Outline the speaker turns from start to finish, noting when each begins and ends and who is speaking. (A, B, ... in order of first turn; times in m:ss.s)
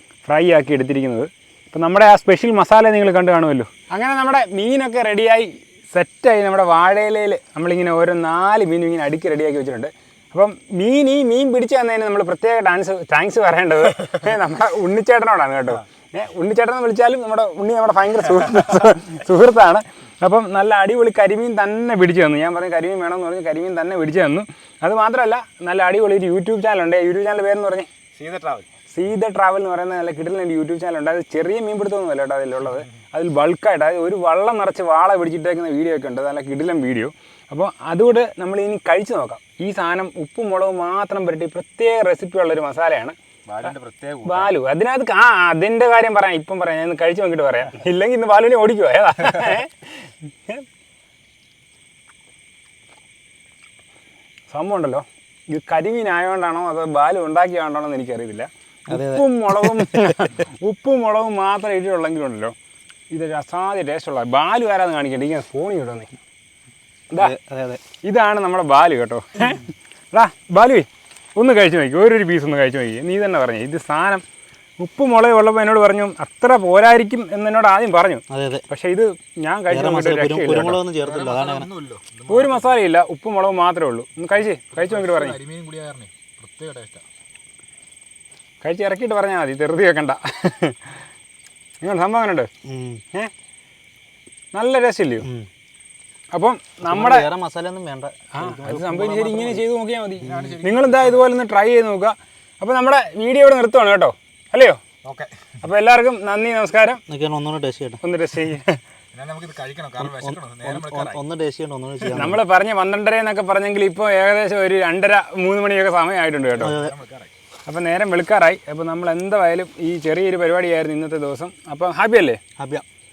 0:00.3-0:27.9 A
0:28.2-0:28.7 B
0:28.9-0:50.6 A
0:43.5-0:44.5 B
0:54.5-1:02.5 A
0:58.9-1:00.4 C
1:03.1-1:06.1 A
1:07.2-1:07.8 C
1:08.0-1:14.2 A
1:14.8-1:20.8 A
1:18.3-1:18.6 C
1:19.7-1:21.7 C
1:20.9-1:22.8 B
1:22.3-1:25.4 A
1:24.3-1:27.0 B
1:28.6-1:31.0 A
1:31.8-1:32.5 A
1:32.6-1:33.0 C
1:34.5-1:35.3 A
1:35.2-1:35.5 C
1:36.3-1:37.3 A
1:36.8-1:39.6 C
1:38.3-1:44.8 A
1:40.2-1:41.2 B
1:40.2-1:40.6 C
1:45.0-1:45.6 B
1:45.6-1:47.0 A
1:47.1-1:48.0 C
1:48.0-1:48.8 A
1:49.1-1:51.2 B
1:50.0-1:52.4 C
1:52.1-1:56.8 A
1:56.6-1:57.3 B
1:56.6-1:56.9 C
1:57.6-2:02.4 A
2:02.6-2:02.8 C